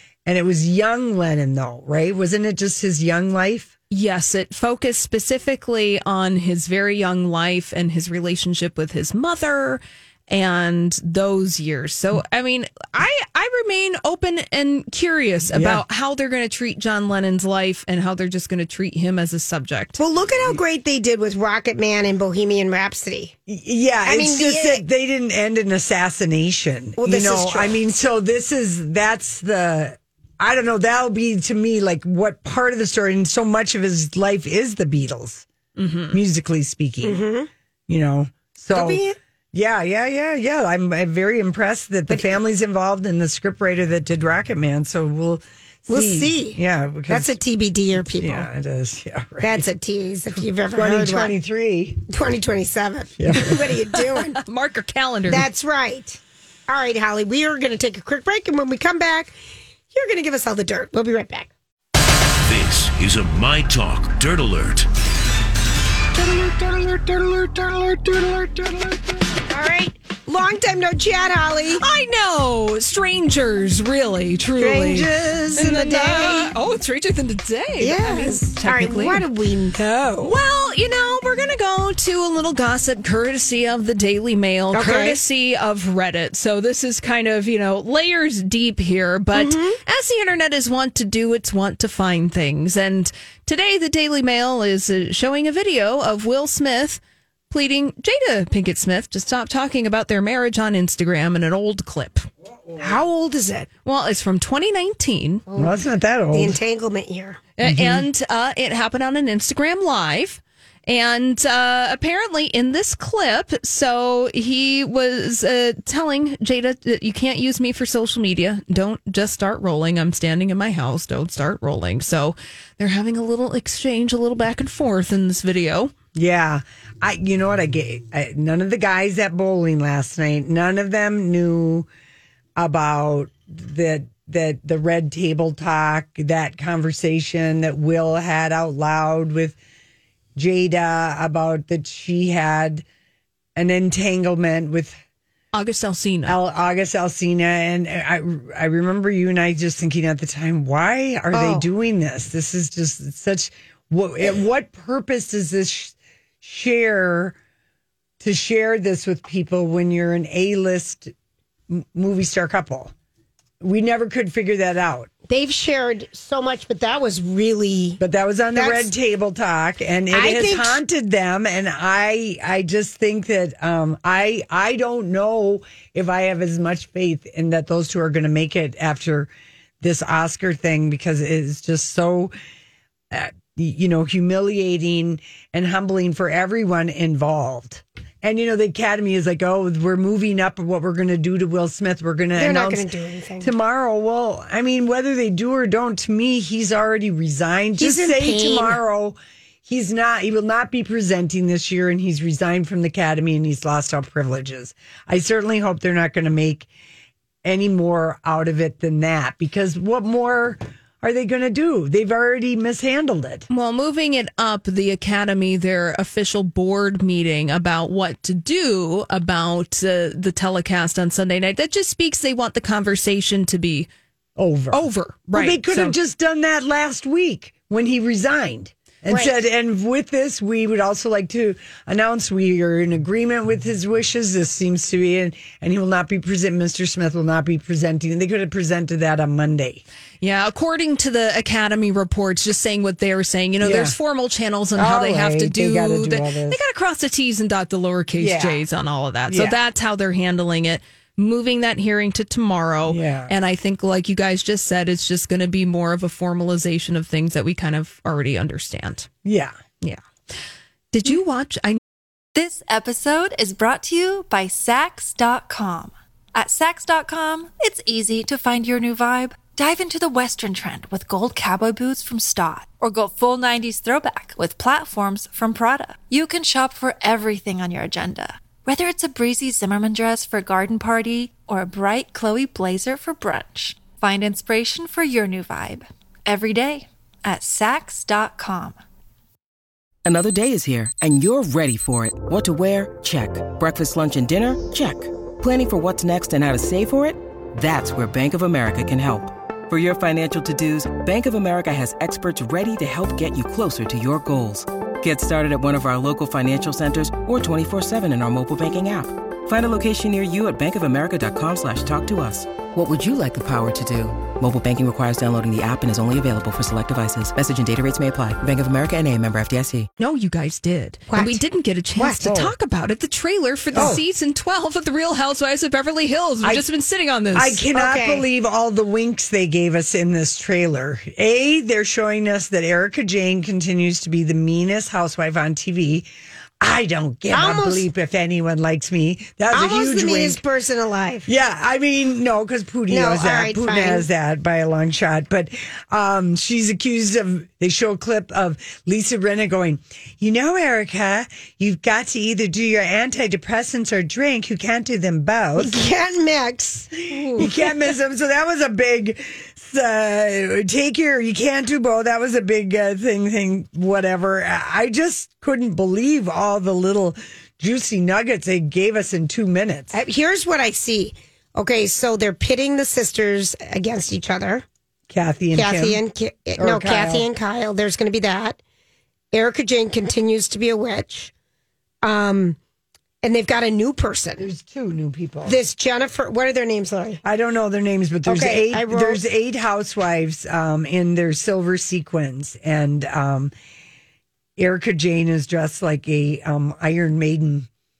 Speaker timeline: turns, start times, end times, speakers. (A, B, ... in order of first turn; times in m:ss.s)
0:00.2-0:03.7 A
0:03.9-0:20.0 B
0:15.5-0:15.8 A
0:20.0-0:23.4 C
0:23.5-0:35.5 A
0:24.0-0:24.8 C
0:27.0-0:27.8 C
0:35.8-0:36.2 B
0:36.1-0:37.2 A
0:37.0-0:37.5 C
0:37.9-0:47.3 A
0:38.7-0:39.2 C
0:45.9-0:48.5 C
0:48.2-0:49.7 A
0:49.4-0:51.3 C
0:50.4-0:52.0 A
0:52.1-0:54.4 C
0:53.2-0:53.8 A
0:54.1-0:55.5 B
0:55.3-0:59.4 C
0:59.9-1:01.5 C
1:02.4-1:04.9 D
1:06.2-1:09.1 A
1:09.5-1:11.8 C
1:11.8-1:19.3 B
1:14.6-1:16.5 C
1:17.8-1:20.3 C
1:20.2-1:42.3 B
1:24.7-1:25.2 C
1:29.4-1:29.8 C
1:42.8-1:43.7 C
1:43.8-1:45.4 B
1:45.5-1:45.8 C
1:45.6-1:46.6 A
1:46.3-1:47.4 C
1:47.6-2:05.9 B
1:47.6-1:48.0 A
2:06.1-2:11.9 A
2:12.6-2:19.6 A
2:20.4-2:22.8 A
2:23.6-2:25.0 A
2:25.5-2:26.4 B
2:26.2-2:37.4 A
2:31.3-2:31.7 C
2:38.2-2:41.1 A
2:41.7-2:42.9 A
2:43.6-2:45.1 A
2:45.3-2:48.0 C
2:48.0-2:59.3 A
2:48.5-2:48.9 C
2:50.1-2:50.8 C
2:59.8-3:02.3 A
3:03.1-3:12.9 A
3:12.4-3:13.5 C
3:13.4-3:26.7 A
3:17.8-3:18.8 C
3:27.4-3:33.5 A
3:33.5-3:43.9 B
3:44.4-3:44.8 A
3:44.7-3:46.0 B
3:45.3-3:59.8 A
3:49.1-3:49.4 C
4:00.2-4:19.1 B
4:03.6-4:04.0 A
4:04.8-4:06.6 A
4:08.2-4:08.6 A
4:09.3-4:09.6 A
4:12.9-4:13.3 A
4:19.2-4:19.6 A
4:20.9-4:21.8 B
4:22.4-4:48.8 E
4:50.0-5:19.9 F
5:20.0-5:27.6 B
5:21.1-5:21.4 C
5:22.0-5:22.2 C
5:22.2-5:22.5 A
5:23.7-5:24.0 C
5:23.7-5:24.0 A
5:27.3-5:36.1 A
5:27.7-5:28.2 C
5:36.6-5:40.4 A
5:37.3-5:37.8 C
5:39.5-5:41.3 C
5:41.2-5:55.8 A
5:42.9-5:44.0 C
5:55.6-5:57.6 C
5:57.2-5:57.4 B
5:57.4-6:10.0 A
6:09.9-6:14.6 C
6:15.1-6:16.0 A
6:15.5-6:18.6 C
6:16.6-6:17.3 A
6:19.3-6:21.3 C
6:22.0-6:22.6 C
6:23.2-6:24.5 C
6:24.4-6:25.6 A
6:25.4-6:27.2 C
6:27.2-6:33.5 A
6:28.2-6:29.2 C
6:34.6-6:37.7 A